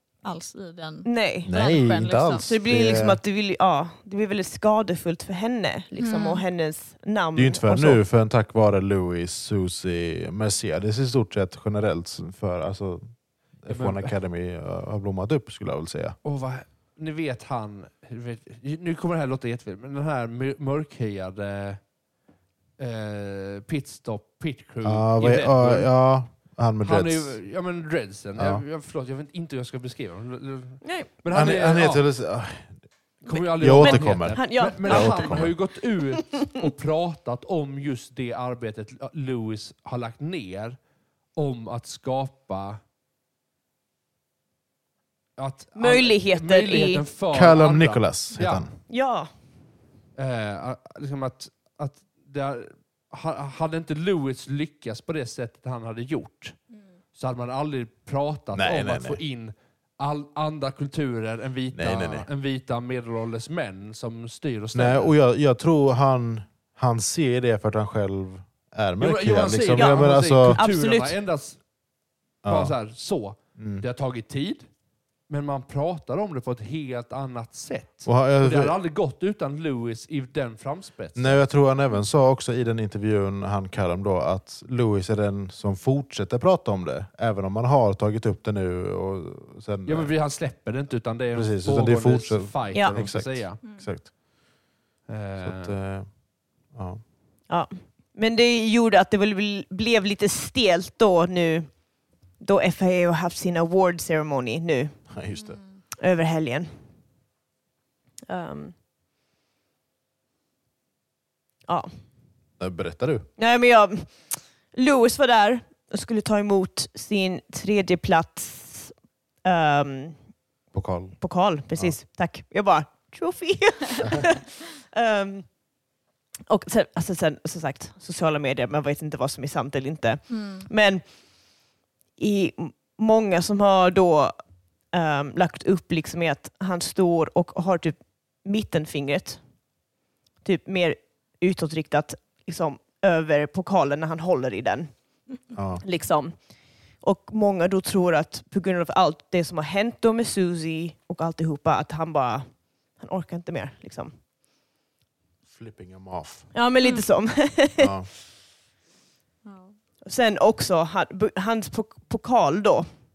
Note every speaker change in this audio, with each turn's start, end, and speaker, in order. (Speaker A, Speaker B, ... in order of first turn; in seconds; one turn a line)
Speaker A: 0.2-2.5
Speaker B: 1.0-1.5
Speaker C: 1.4-3.2
Speaker B: 2.5-8.0
Speaker A: 6.0-6.4
Speaker C: 7.3-13.1
Speaker C: 13.6-16.1
Speaker D: 13.7-14.1
Speaker D: 16.2-21.8
Speaker D: 22.8-25.9
Speaker C: 24.8-27.4
Speaker D: 26.8-32.0
Speaker C: 28.4-28.6
Speaker B: 30.8-31.1
Speaker C: 31.3-32.8
Speaker D: 33.2-40.8
Speaker B: 33.3-35.4
Speaker C: 33.6-35.5
Speaker D: 41.4-42.8
Speaker D: 45.4-48.7
Speaker B: 45.8-47.0
Speaker C: 47.3-48.7
Speaker B: 48.9-49.3
Speaker D: 50.1-56.5
Speaker D: 57.1-65.1
Speaker C: 58.5-59.2
Speaker C: 61.7-62.3
Speaker C: 64.7-70.6
Speaker D: 69.0-71.6
Speaker B: 69.7-71.2
Speaker C: 72.4-72.7
Speaker D: 72.5-74.7
Speaker C: 73.6-73.8
Speaker D: 75.3-81.4
Speaker C: 78.0-78.8
Speaker C: 81.2-90.1
Speaker D: 89.8-93.6
Speaker C: 91.3-94.1
Speaker D: 95.1-95.7
Speaker C: 95.4-96.1
Speaker C: 96.7-97.0
Speaker B: 97.5-101.7
Speaker B: 102.4-105.0
Speaker C: 105.1-105.6
Speaker B: 106.0-106.7
Speaker B: 108.3-108.7
Speaker C: 112.6-113.3
Speaker B: 113.4-114.2
Speaker B: 114.7-118.9
Speaker B: 119.4-120.2
Speaker C: 120.7-121.2
Speaker B: 121.2-125.5
Speaker B: 126.5-131.0
Speaker A: 130.3-130.7
Speaker B: 132.2-134.3
Speaker B: 134.9-139.4
Speaker B: 140.4-144.9
Speaker C: 145.5-145.8
Speaker B: 145.8-146.3
Speaker B: 147.0-152.4
Speaker B: 152.9-154.1
Speaker C: 155.5-156.5
Speaker B: 156.5-157.9
Speaker C: 157.8-158.1
Speaker A: 159.4-159.7
Speaker B: 160.0-162.8